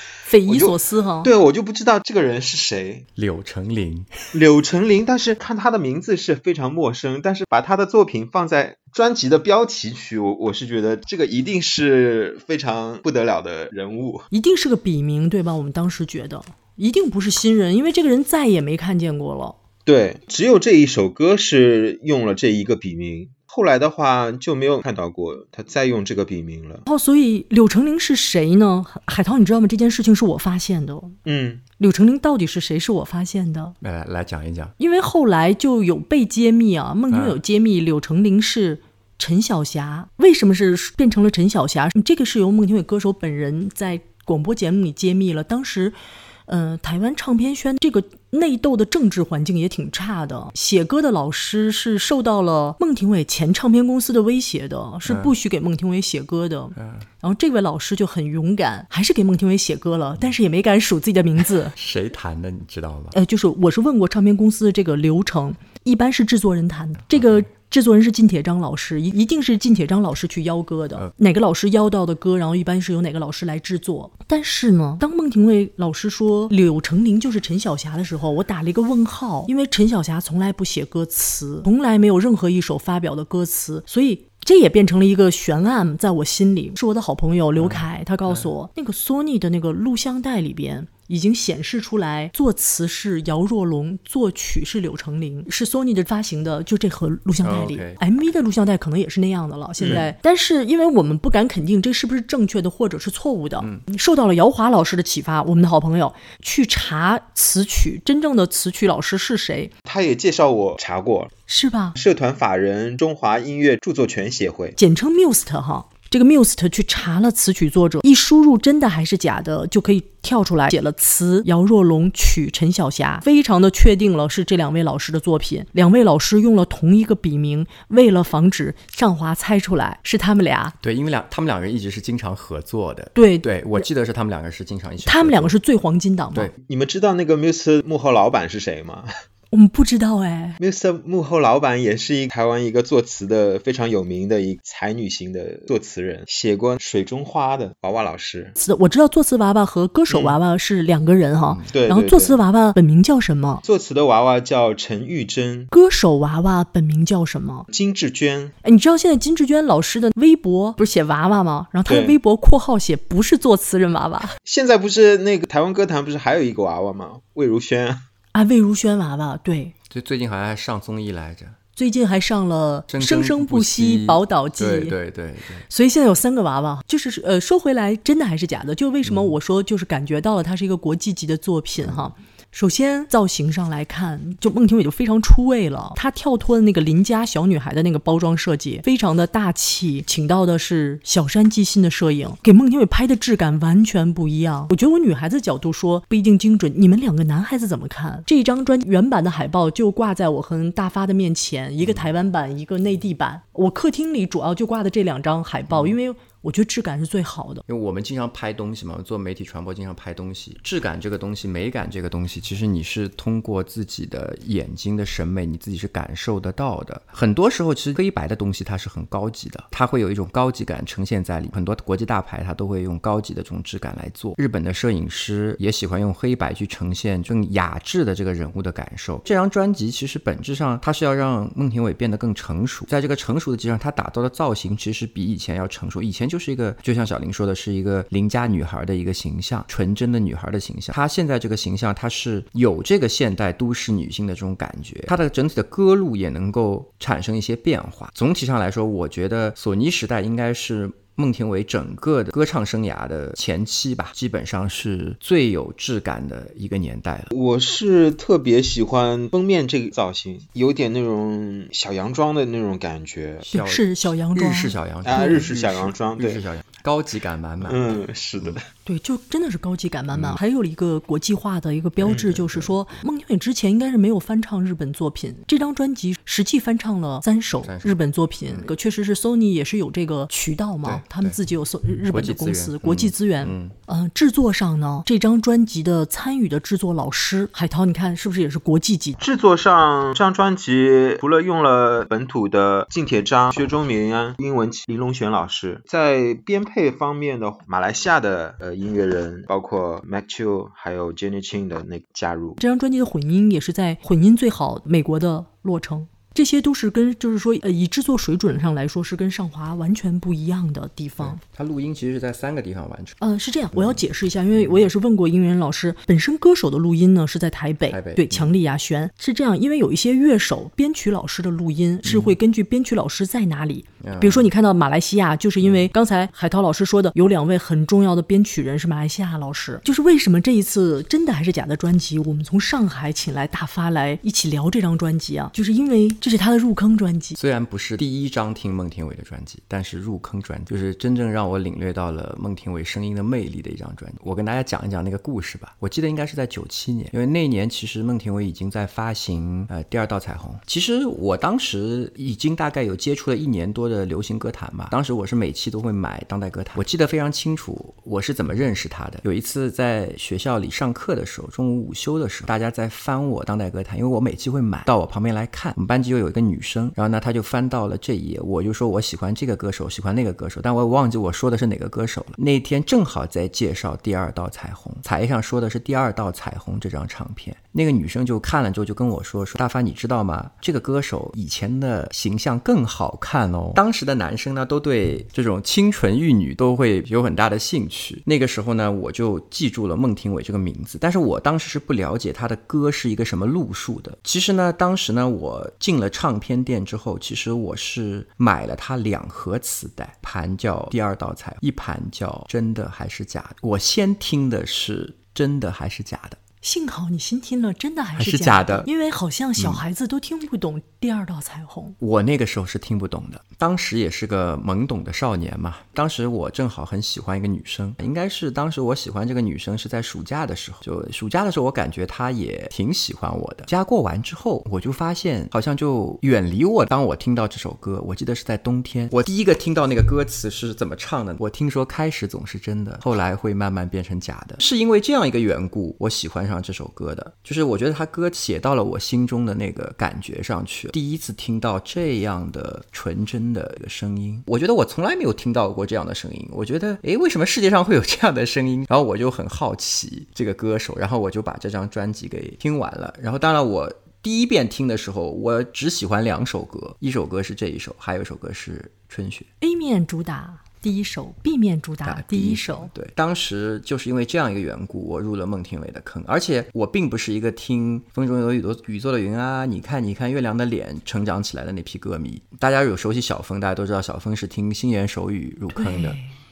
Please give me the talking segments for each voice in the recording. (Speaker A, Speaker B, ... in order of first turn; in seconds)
Speaker A: 0.3-1.3, 14.3-19.6, 26.9-31.1, 31.8-33.7, 34.8-61.7, 63.1-109.7, 111.5-112.0, 114.8-130.7, 133.2-133.8, 135.0-136.5, 139.5-140.6, 148.6-153.6, 155.7-157.7, 158.6-164.3, 168.3-169.7, 171.8-174.9, 175.7-207.6, 263.5-265.4, 268.9-289.2, 302.6-311.4, 313.2-337.4, 406.6-411.9, 459.6-462.9, 475.7-476.3
Speaker B: 0.5-3.0, 4.3-14.3, 19.9-26.8, 31.2-31.6, 109.8-111.3, 112.0-114.8, 136.6-139.1, 140.6-148.5, 150.1-150.4, 151.7-152.4, 153.6-155.7, 157.7-158.5, 161.9-162.2, 164.4-168.0, 257.3-263.4, 265.0-266.4, 267.6-268.6, 289.2-302.6
Speaker C: 3.1-4.1, 33.8-34.7, 37.1-37.4, 55.0-55.3, 56.8-57.0, 61.4-63.1, 67.1-67.5, 87.6-88.5, 97.4-98.0, 103.6-103.8, 130.8-135.5, 169.9-171.6, 172.9-175.7, 179.0-179.3, 181.8-182.1, 201.8-202.1, 205.7-205.9, 207.7-257.3, 263.4-268.6, 270.1-270.4, 272.0-273.0, 277.6-278.7, 280.8-281.4, 282.1-283.8, 311.2-313.2, 313.7-314.0, 314.5-314.8, 317.9-318.5, 322.0-322.3, 324.0-324.5, 325.6-325.9, 337.4-406.4, 408.2-408.9, 412.0-459.5, 462.0-476.2